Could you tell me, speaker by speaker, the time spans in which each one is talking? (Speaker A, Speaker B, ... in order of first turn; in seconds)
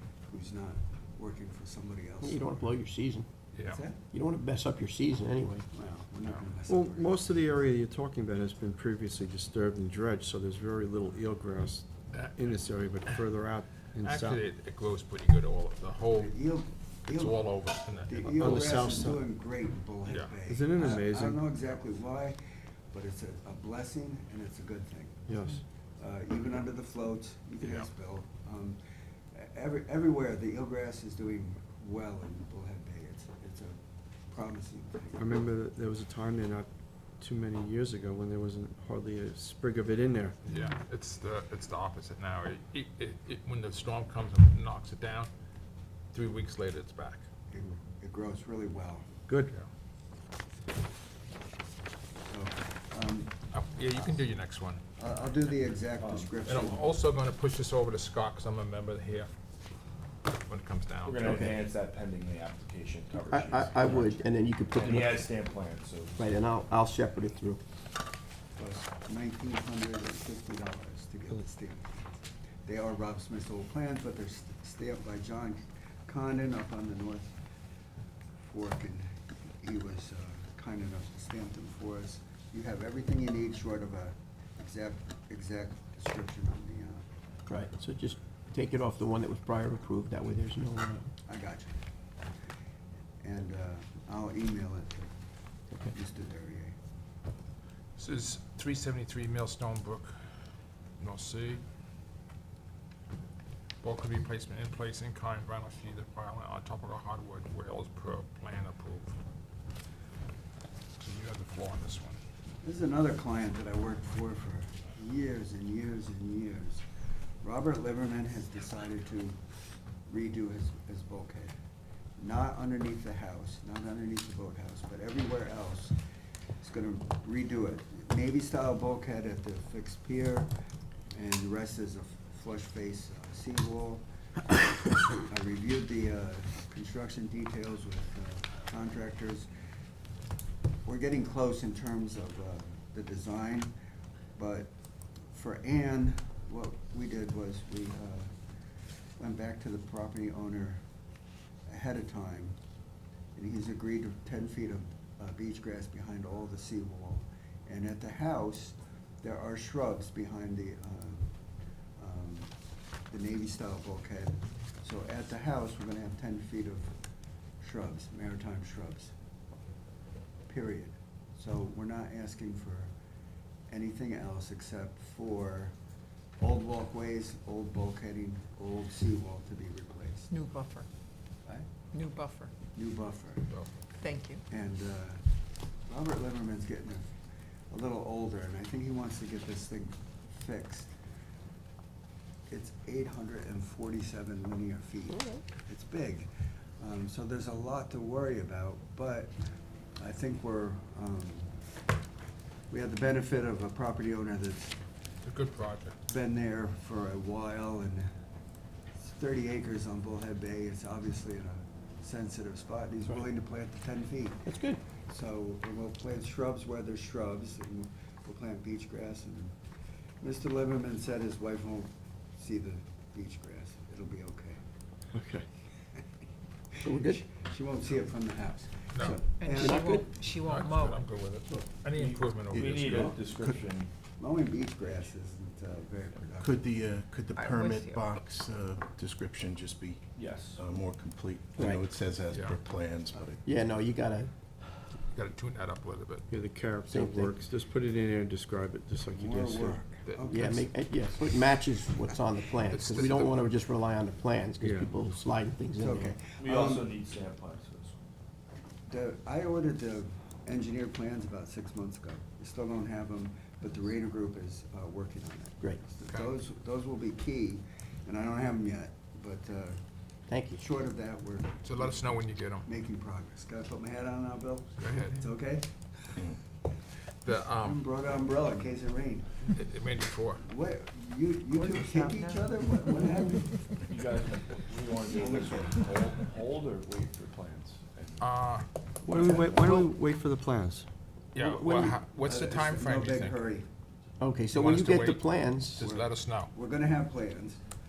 Speaker A: 0.3-2.7, 3.7-4.0, 5.7-7.2, 16.1-17.4, 18.1-22.4, 22.9-25.3, 26.0-28.8, 29.3-33.8, 34.3-35.3, 47.5-49.1, 52.3-53.4, 55.0-56.9, 68.6-72.0, 72.7-77.3, 78.5-87.0, 91.2-91.8, 93.2-95.1, 95.8-96.8, 112.6-116.8, 117.4-119.4, 120.1-121.5, 122.2-126.0, 126.6-130.5, 131.1-134.0, 135.1-139.5, 140.8-143.7, 144.3-144.7, 145.3-148.3, 149.2-150.8, 151.7-152.6, 153.3-161.3, 162.0-162.5, 163.1-166.9, 167.6-169.1, 170.5-172.9, 173.7-175.7, 176.4-180.3, 182.7-183.5, 184.5-185.2, 185.9-187.1, 187.7-190.9, 192.5-196.3, 196.8-199.3, 200.0-201.5, 202.7-204.8, 206.1-208.1, 209.0-214.5, 215.1-219.5, 220.2-224.6, 226.8-229.8, 234.2-236.7, 249.1-250.6, 255.7-256.9, 258.9-269.8, 270.5-276.1, 277.5-279.5, 280.4-283.7, 285.1-285.8, 291.7-293.7, 295.8-297.6
Speaker B: 2.2-3.3, 4.1-5.6, 63.2-65.3, 66.2-67.6, 87.5-91.1, 214.4-214.8, 226.8-227.2, 229.1-230.1, 241.6-241.8, 243.4-244.3, 246.9-247.3, 250.3-256.2, 270.3-270.6, 294.2-295.9
Speaker C: 3.5-3.8, 14.0-16.4, 17.1-18.9, 20.1-20.3, 27.6-27.9, 40.4-45.3, 46.1-47.2, 53.5-54.8, 56.4-59.3, 60.3-61.4, 98.0-100.1, 101.0-101.6, 103.8-109.1, 111.0-112.2, 183.5-183.8, 205.2-206.0, 228.9-229.2, 230.3-233.1, 242.3-242.6, 245.1-246.3, 250.1-250.5, 252.7-253.3, 271.6-272.7, 274.8-275.2, 277.2-277.8, 279.5-280.4, 288.2-289.9, 291.3-293.4, 294.5-296.5
Speaker D: 6.7-14.4, 18.3-19.2, 20.4-21.4, 25.3-25.6, 35.2-36.7, 37.2-40.4, 49.3-49.5, 225.1-225.4, 246.3-249.8, 254.6-254.9, 289.0-290.9, 291.4-291.9
Speaker E: 56.0-56.3, 61.0-64.2, 64.8-66.2, 231.9-233.9, 240.2-240.6, 256.4-258.0, 283.9-288.2
Speaker F: 180.3-180.9, 181.9-182.5, 183.9-184.4, 229.3-231.1, 237.3-238.1, 281.5-282.6
Speaker G: 232.5-233.7, 236.4-243.4